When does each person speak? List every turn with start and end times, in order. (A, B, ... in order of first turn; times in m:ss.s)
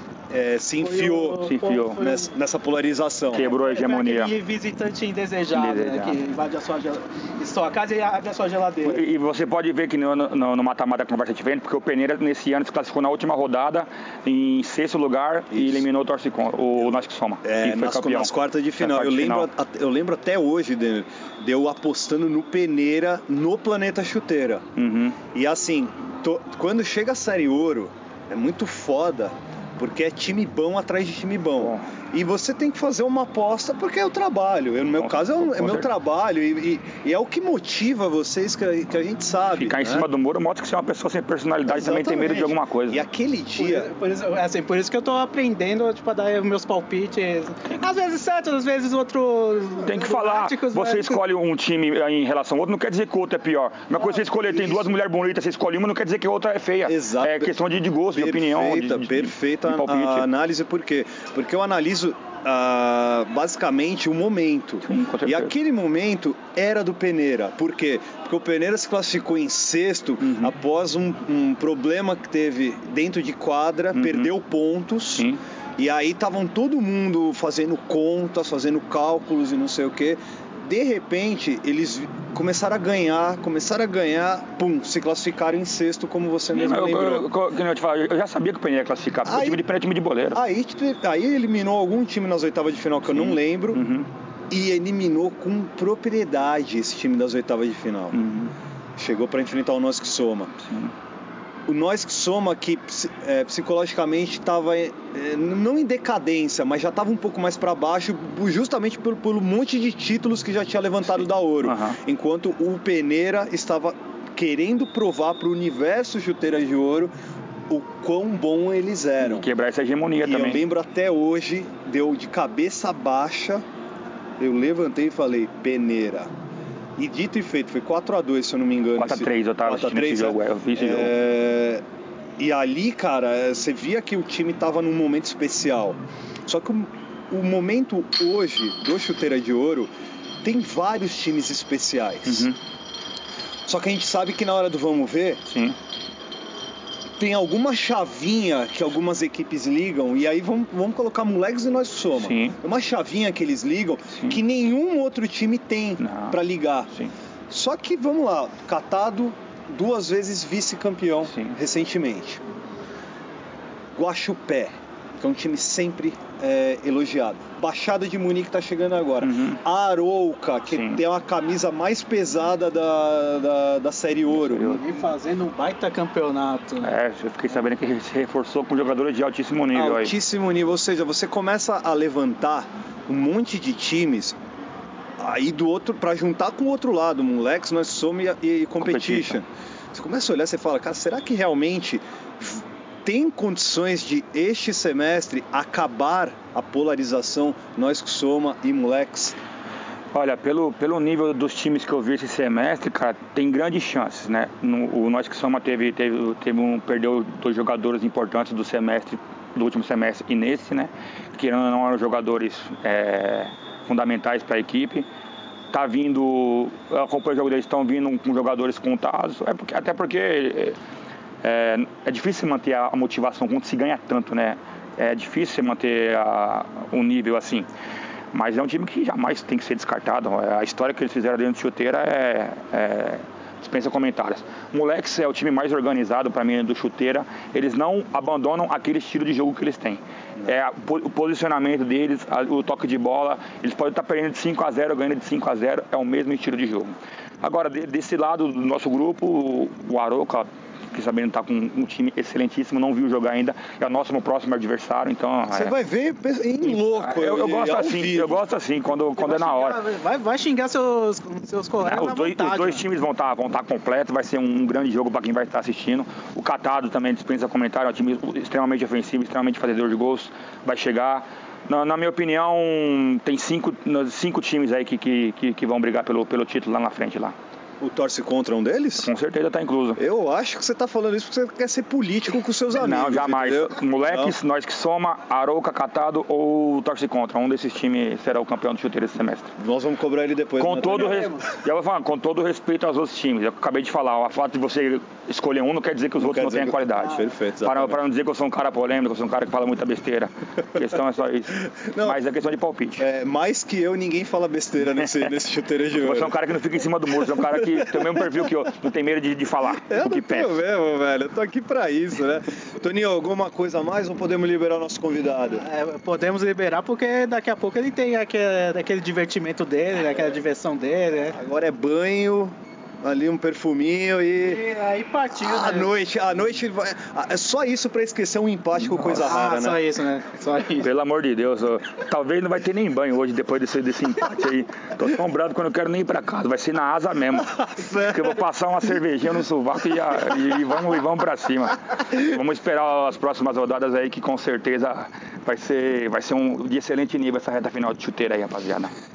0:00.3-0:03.5 A
0:00.8-0:02.3 B
0:01.4-0:02.0 C
0:03.3-0:04.3 C
0:03.4-0:09.0 B
0:05.5-0:06.2 C
0:08.8-0:19.5 C
0:15.5-0:15.9 A
0:17.4-0:24.7 A
0:24.8-0:25.2 C
0:25.3-0:40.1 A
0:35.0-0:35.9 C
0:39.6-0:43.0 C
0:41.7-0:43.9 A
0:43.6-0:51.2 B
0:49.8-1:00.3 C
0:54.0-0:54.9 A
0:56.9-0:57.6 A
0:58.1-1:27.3 A
1:04.8-1:05.5 C
1:10.2-1:10.5 C
1:13.9-1:14.3 C
1:26.5-1:30.4 C
1:29.3-1:29.6 A
1:30.3-1:33.8 A
1:33.1-1:34.1 C
1:34.5-1:38.2 A
1:38.1-1:38.5 C
1:39.0-1:40.5 A
1:40.7-1:40.9 C
1:41.7-1:57.1 A
1:51.6-1:52.0 C
1:57.7-1:59.5 A
1:59.2-2:00.6 C
2:00.2-2:03.6 A
2:04.4-2:06.3 A
2:07.0-2:11.8 A
2:09.0-2:11.1 C
2:12.4-2:19.9 A
2:20.4-2:22.5 A
2:22.3-2:22.6 C
2:23.7-2:25.4 A
2:25.5-2:25.8 C
2:27.2-2:36.9 A
2:32.2-2:32.5 C
2:36.0-2:36.4 C
2:37.5-2:42.4 A
2:41.3-2:41.6 C
2:44.0-2:54.8 A
2:49.2-2:49.6 C
2:50.7-2:51.0 C
2:54.3-2:54.8 C
2:54.6-2:56.9 B
2:56.8-3:00.1 C
2:59.7-3:04.4 A
3:05.2-3:19.4 A
3:08.8-3:09.4 C
3:20.1-3:35.1 C
3:35.7-3:40.8 C
3:41.4-3:47.7 C
3:48.3-4:15.7 C
4:15.5-4:18.4 A
4:16.6-4:19.8 C
4:19.2-4:22.8 B
4:21.8-4:37.4 C
4:37.8-4:39.1 A
4:39.0-4:40.0 C
4:40.0-4:44.3 A
4:42.8-4:49.5 C
4:49.6-4:51.3 A
4:50.6-5:03.0 C
4:50.9-4:51.5 B
4:56.2-4:58.0 A
5:01.7-5:02.2 A
5:03.0-5:06.3 A
5:05.9-5:10.6 C
5:09.9-5:15.6 A
5:15.6-5:21.4 B
5:21.3-5:24.6 A
5:24.4-5:25.9 B
5:25.4-5:29.8 A
5:29.1-5:30.9 B
5:30.8-5:48.9 C
5:37.7-5:38.2 A